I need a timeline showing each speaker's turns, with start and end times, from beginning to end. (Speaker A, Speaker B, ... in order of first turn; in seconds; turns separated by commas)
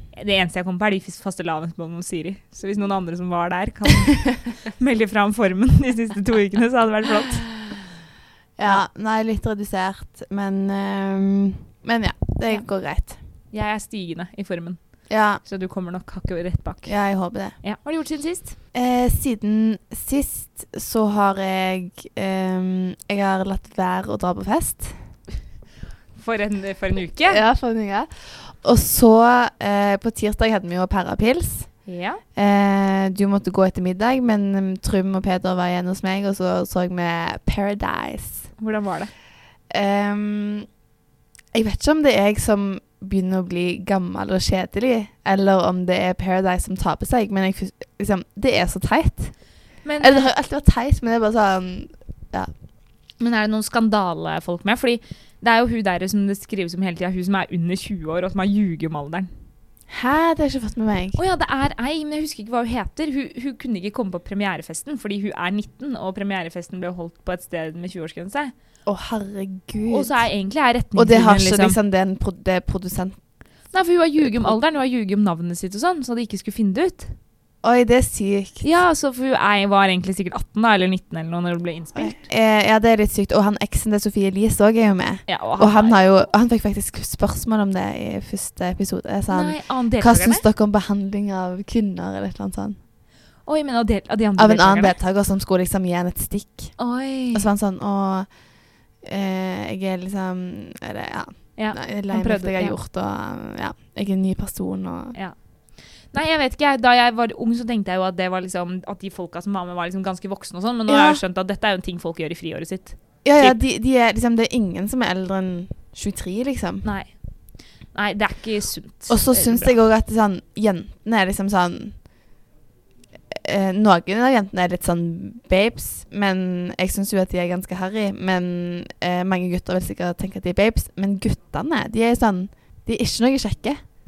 Speaker A: 0.1-7.6, Speaker B: 8.6-13.2, Speaker A: 12.5-18.6, Speaker B: 15.1-15.4, Speaker B: 16.9-17.6, Speaker B: 18.7-25.0, Speaker A: 26.1-27.4, Speaker B: 27.2-38.5, Speaker A: 31.9-32.2, Speaker A: 38.6-39.1, Speaker B: 39.7-40.7, Speaker B: 41.5-52.5, Speaker A: 49.8-50.3, Speaker A: 53.2-59.3, Speaker B: 59.9-61.2, Speaker A: 61.1-68.5, Speaker B: 68.8-70.3, Speaker A: 69.9-71.8, Speaker B: 70.9-73.2, Speaker A: 73.7-77.1, Speaker B: 74.2-74.6, Speaker B: 77.6-78.7, Speaker A: 78.6-82.2, Speaker B: 81.9-92.8, Speaker A: 85.2-86.0, Speaker A: 89.3-90.4, Speaker A: 93.4-95.0, Speaker B: 94.4-105.2, Speaker A: 96.8-97.5, Speaker A: 101.5-102.8, Speaker A: 106.1-113.6, Speaker B: 110.9-111.2, Speaker B: 113.2-116.8, Speaker A: 116.8-119.7, Speaker B: 119.1-122.0, Speaker B: 123.3-133.8